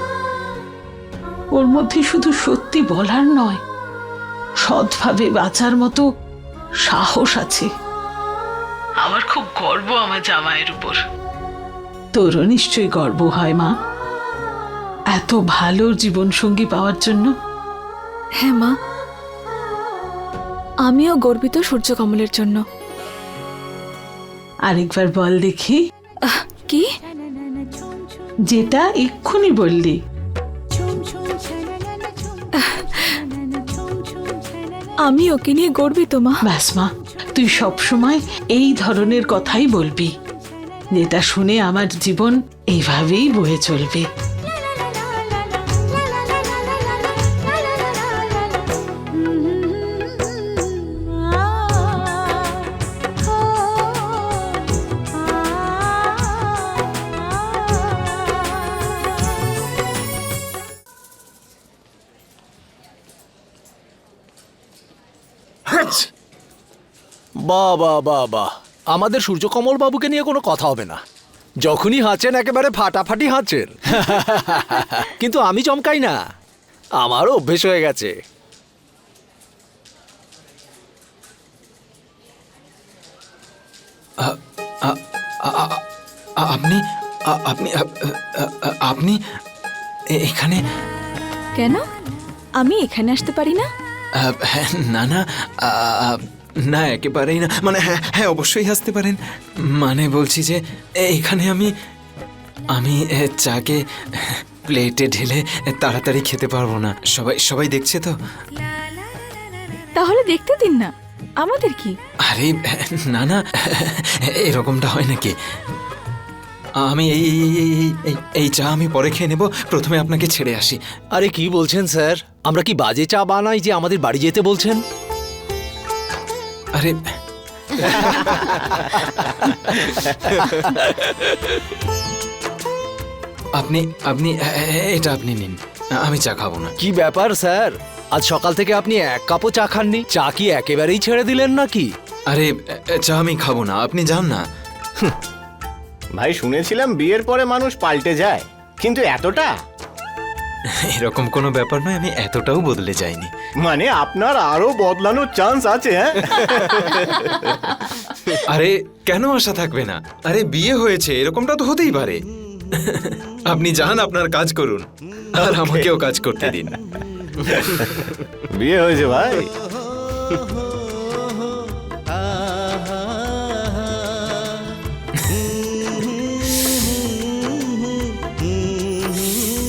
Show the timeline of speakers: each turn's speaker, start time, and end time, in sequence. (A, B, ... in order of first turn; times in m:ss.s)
0:01.6-0:03.6 A
0:04.6-0:06.0 A
0:06.9-0:07.7 A
0:09.0-0:11.0 A
0:12.1-0:13.7 A
0:15.1-0:17.3 A
0:18.4-0:18.7 B
0:20.9-0:22.6 B
0:24.7-0:25.8 A
0:26.2-0:26.9 B
0:28.5-0:30.0 A
0:32.6-0:33.2 B
0:35.0-0:36.4 B
0:36.4-0:40.1 A
0:41.0-0:44.1 A
1:07.4-1:11.0 C
1:11.6-1:16.2 C
1:17.0-1:18.1 C
1:24.2-1:25.8 D
1:26.4-1:29.2 D
1:30.2-1:30.6 D
1:31.6-1:31.8 B
1:32.6-1:33.7 B
1:34.2-1:39.2 D
1:39.8-1:41.7 D
1:42.8-1:48.1 D
1:50.0-1:50.9 B
1:51.4-1:51.9 B
1:52.3-1:55.3 D
1:56.8-2:00.8 D
2:01.1-2:04.8 C
2:07.8-2:11.5 C
2:13.6-2:16.7 D
2:16.8-2:21.9 C
2:22.3-2:24.4 D
2:26.2-2:29.6 E
2:30.7-2:33.3 D
2:33.6-2:37.3 E
2:38.5-2:42.2 D
2:42.8-2:46.8 D
2:48.6-2:49.5 E